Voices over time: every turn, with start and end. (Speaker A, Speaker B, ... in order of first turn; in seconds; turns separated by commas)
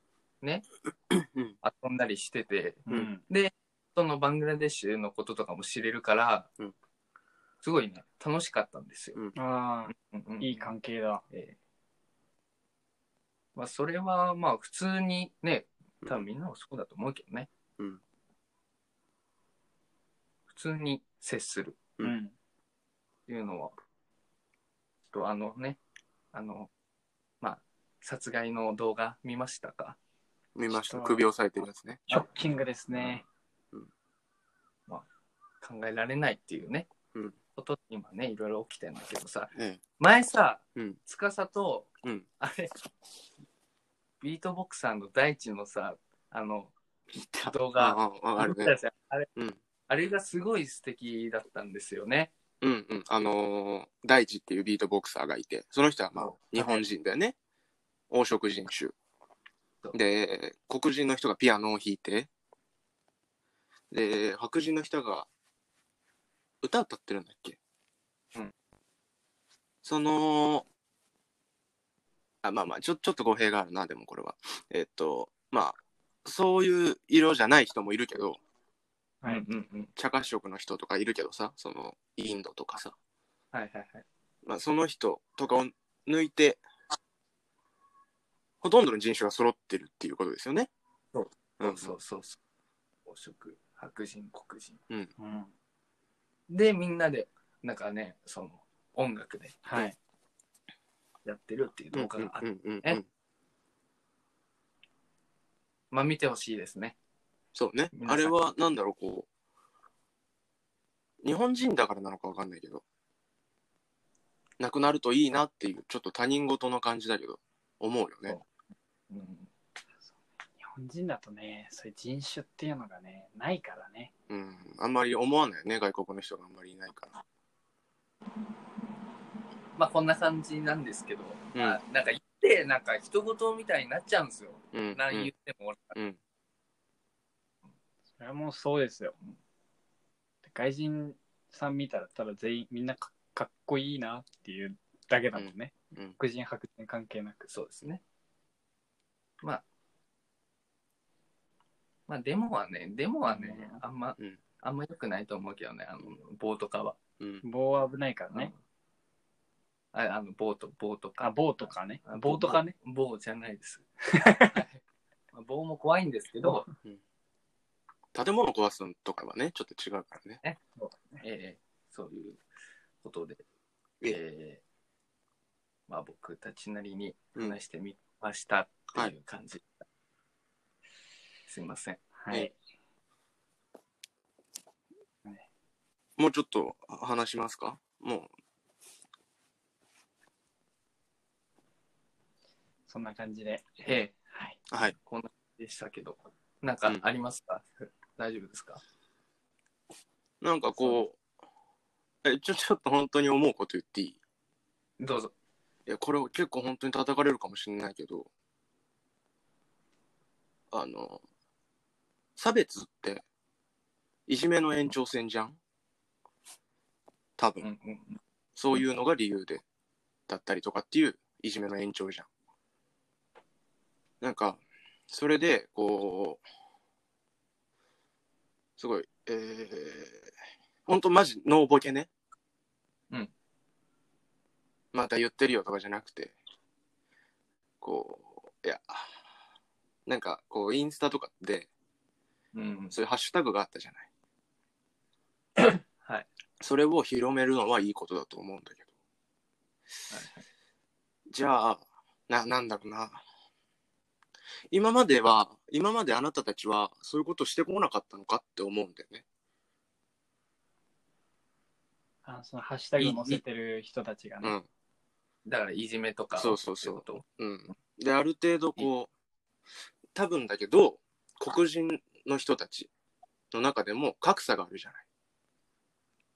Speaker A: 1.1-1.6, Speaker B: 1.6-6.5, Speaker C: 2.9-3.2, Speaker B: 7.6-9.2, Speaker C: 9.4-11.2, Speaker B: 10.0-10.7, Speaker B: 11.3-11.6, Speaker B: 13.6-17.5, Speaker B: 20.5-21.8, Speaker C: 22.0-22.3, Speaker B: 23.3-23.7, Speaker B: 25.1-25.8, Speaker B: 26.3-26.7, Speaker B: 27.4-30.0, Speaker A: 30.6-32.0, Speaker C: 30.7-31.2, Speaker C: 32.1-33.2, Speaker B: 35.6-36.9, Speaker B: 37.6-42.7, Speaker A: 39.5-39.8, Speaker B: 44.2-46.8, Speaker A: 47.2-48.8, Speaker B: 47.4-49.3, Speaker B: 49.9-52.3, Speaker A: 52.6-57.4, Speaker B: 56.2-56.8, Speaker A: 58.1-59.0, Speaker A: 59.9-62.3, Speaker A: 63.9-65.3, Speaker A: 66.6-67.6, Speaker A: 69.8-70.7, Speaker A: 72.4-78.4, Speaker B: 79.3-79.9, Speaker A: 80.0-83.0, Speaker B: 83.5-84.0, Speaker A: 84.5-86.6, Speaker A: 88.6-90.7, Speaker B: 91.1-92.4, Speaker A: 91.6-92.0, Speaker B: 93.1-94.8, Speaker C: 95.2-95.5, Speaker B: 96.5-99.7, Speaker C: 99.7-100.0, Speaker B: 101.2-103.0, Speaker A: 101.9-103.0, Speaker B: 105.9-107.0, Speaker A: 107.5-109.3, Speaker B: 107.9-108.3, Speaker A: 111.2-112.8, Speaker A: 114.6-118.4, Speaker B: 119.1-119.5, Speaker C: 120.6-124.1, Speaker A: 124.3-127.2, Speaker B: 129.8-135.9, Speaker A: 134.7-135.3, Speaker C: 138.2-139.2, Speaker C: 140.4-147.5, Speaker A: 145.3-146.2, Speaker B: 147.5-148.0, Speaker B: 152.1-157.0, Speaker C: 153.3-153.8, Speaker C: 157.4-158.5, Speaker B: 159.9-161.4, Speaker C: 161.2-162.8, Speaker B: 162.1-163.9, Speaker C: 164.1-164.6, Speaker B: 164.5-164.8, Speaker B: 165.3-166.7, Speaker A: 168.1-170.4, Speaker C: 170.8-171.2, Speaker B: 171.2-172.4, Speaker B: 173.0-173.4, Speaker B: 174.1-174.6, Speaker B: 175.9-179.8, Speaker B: 181.5-182.0, Speaker C: 182.2-182.6, Speaker A: 186.2-188.3, Speaker C: 192.9-193.7, Speaker B: 193.8-194.1, Speaker C: 194.3-194.6, Speaker B: 195.1-198.8, Speaker A: 200.4-201.2, Speaker A: 202.2-204.2, Speaker B: 205.0-205.3, Speaker A: 205.9-208.3, Speaker A: 210.7-211.2, Speaker A: 212.4-213.2, Speaker A: 214.3-215.6, Speaker A: 217.4-217.7, Speaker B: 217.6-218.2, Speaker A: 218.6-219.6, Speaker A: 220.3-222.3, Speaker A: 224.2-226.4, Speaker A: 228.8-230.3, Speaker A: 230.9-232.1, Speaker A: 234.9-236.4, Speaker A: 237.8-239.2, Speaker A: 240.1-241.7, Speaker B: 242.5-243.0, Speaker A: 242.9-244.1, Speaker B: 245.6-246.3, Speaker A: 246.6-248.9, Speaker B: 250.1-250.4, Speaker A: 251.3-253.2, Speaker A: 254.7-259.2, Speaker C: 262.2-264.6, Speaker A: 263.0-263.4, Speaker B: 265.5-267.2, Speaker A: 266.4-269.1, Speaker A: 270.1-272.9, Speaker A: 273.5-275.0